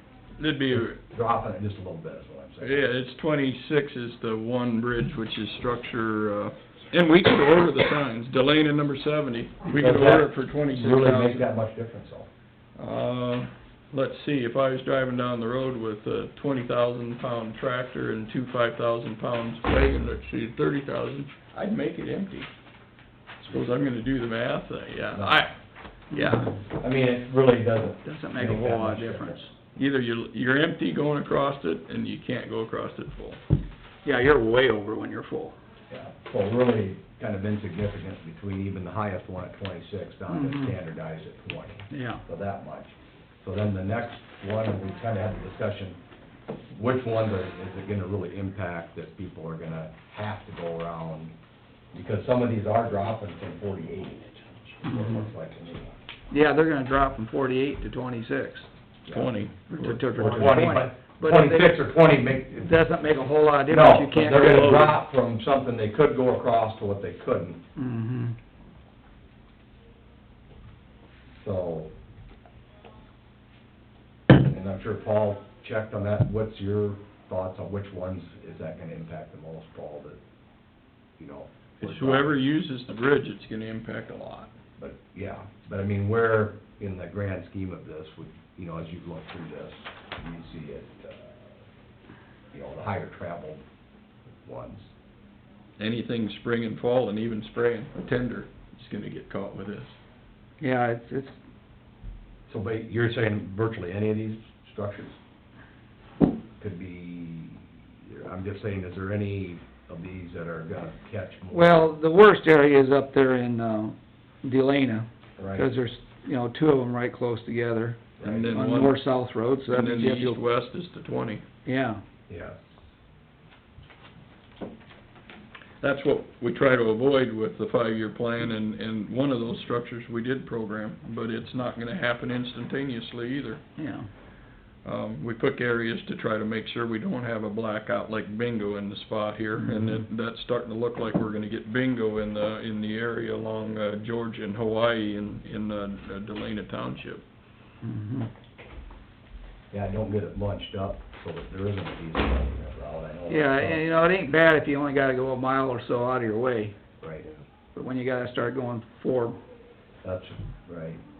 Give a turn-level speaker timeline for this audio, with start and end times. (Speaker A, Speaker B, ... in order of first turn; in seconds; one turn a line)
Speaker A: 0.4-1.0
Speaker B: 0.7-2.9
Speaker A: 2.6-11.5
Speaker B: 9.7-12.3
Speaker A: 12.8-22.5
Speaker A: 23.4-25.6
Speaker B: 25.1-25.4
Speaker C: 26.1-26.6
Speaker B: 26.6-29.4
Speaker C: 28.0-29.5
Speaker A: 29.8-33.4
Speaker C: 34.0-35.5
Speaker B: 35.9-46.0
Speaker C: 40.3-40.7
Speaker C: 41.9-42.2
Speaker B: 46.7-51.3
Speaker B: 51.9-56.0
Speaker C: 56.3-58.7
Speaker B: 59.0-59.5
Speaker A: 59.1-60.0
Speaker C: 59.7-61.8
Speaker B: 60.1-62.8
Speaker C: 62.6-65.0
Speaker B: 63.7-67.6
Speaker C: 67.8-68.4
Speaker B: 71.3-71.9
Speaker B: 74.3-80.2
Speaker B: 81.2-82.4
Speaker A: 81.8-84.5
Speaker B: 84.8-91.6
Speaker B: 92.5-93.6
Speaker B: 94.4-94.9
Speaker A: 95.8-100.0
Speaker C: 100.6-101.3
Speaker B: 102.5-105.2
Speaker B: 106.6-111.8
Speaker C: 111.5-120.4
Speaker B: 115.4-115.7
Speaker B: 118.2-118.5
Speaker A: 118.2-119.1
Speaker A: 119.7-121.4
Speaker C: 121.7-122.0
Speaker B: 122.3-122.8
Speaker A: 125.8-133.6
Speaker C: 133.8-134.1
Speaker A: 134.8-147.2
Speaker C: 139.6-140.0
Speaker C: 147.8-148.3
Speaker B: 149.7-153.8
Speaker C: 153.3-156.8
Speaker B: 157.0-157.3
Speaker C: 157.7-159.4
Speaker B: 160.0-161.0